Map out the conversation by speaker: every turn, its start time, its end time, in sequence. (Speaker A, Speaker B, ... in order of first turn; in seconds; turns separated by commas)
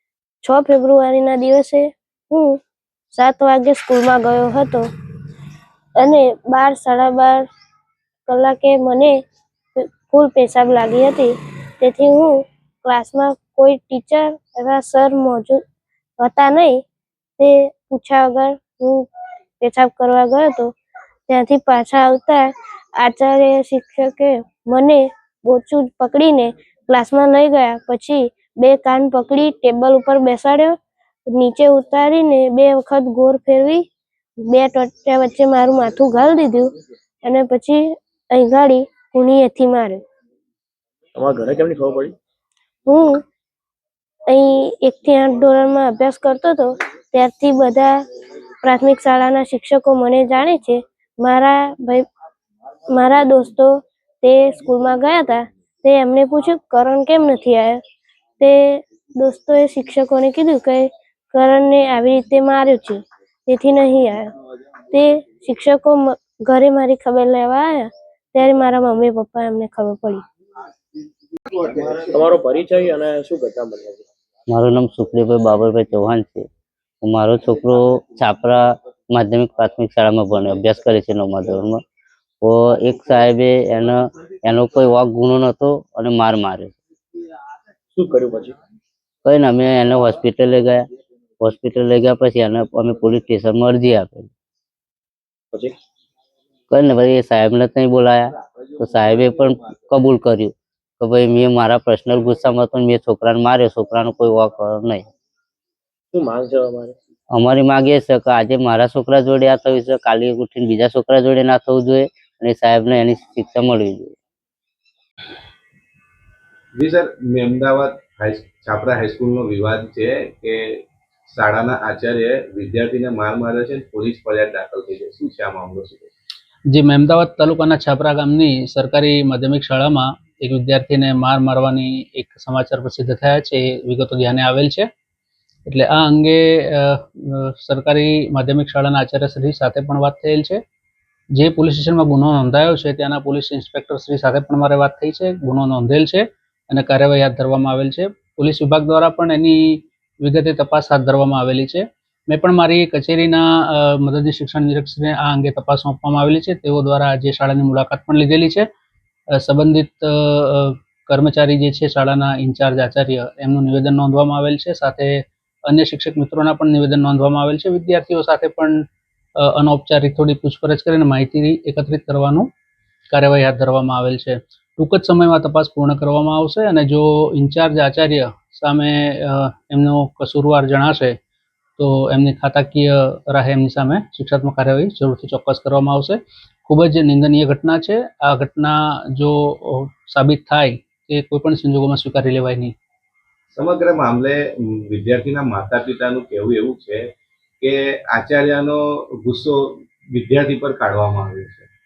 Speaker A: 0.4-2.5, Speaker A: 3.1-4.8, Speaker A: 6.0-7.4, Speaker A: 8.3-9.1, Speaker A: 9.8-15.6, Speaker A: 16.2-16.8, Speaker A: 17.4-19.1, Speaker A: 19.6-20.7, Speaker A: 21.3-30.8, Speaker A: 31.3-33.8, Speaker A: 34.5-36.7, Speaker A: 37.2-40.0, Speaker B: 41.2-42.1, Speaker A: 42.9-43.2, Speaker A: 44.3-48.0, Speaker A: 48.6-52.0, Speaker A: 52.9-53.7, Speaker A: 54.2-57.8, Speaker A: 58.4-64.3, Speaker A: 64.9-70.2, Speaker B: 71.6-74.0, Speaker C: 74.5-76.5, Speaker C: 77.0-81.8, Speaker C: 82.4-86.8, Speaker B: 88.0-88.5, Speaker C: 89.2-90.8, Speaker C: 91.4-94.3, Speaker C: 96.7-105.0, Speaker B: 106.1-107.0, Speaker C: 107.3-114.2, Speaker D: 116.8-120.6, Speaker D: 121.3-126.1, Speaker E: 126.7-134.9, Speaker E: 135.7-140.6, Speaker E: 141.3-158.7, Speaker E: 159.3-172.5, Speaker E: 173.1-181.2, Speaker E: 181.8-192.7, Speaker D: 193.6-197.0, Speaker D: 197.6-201.7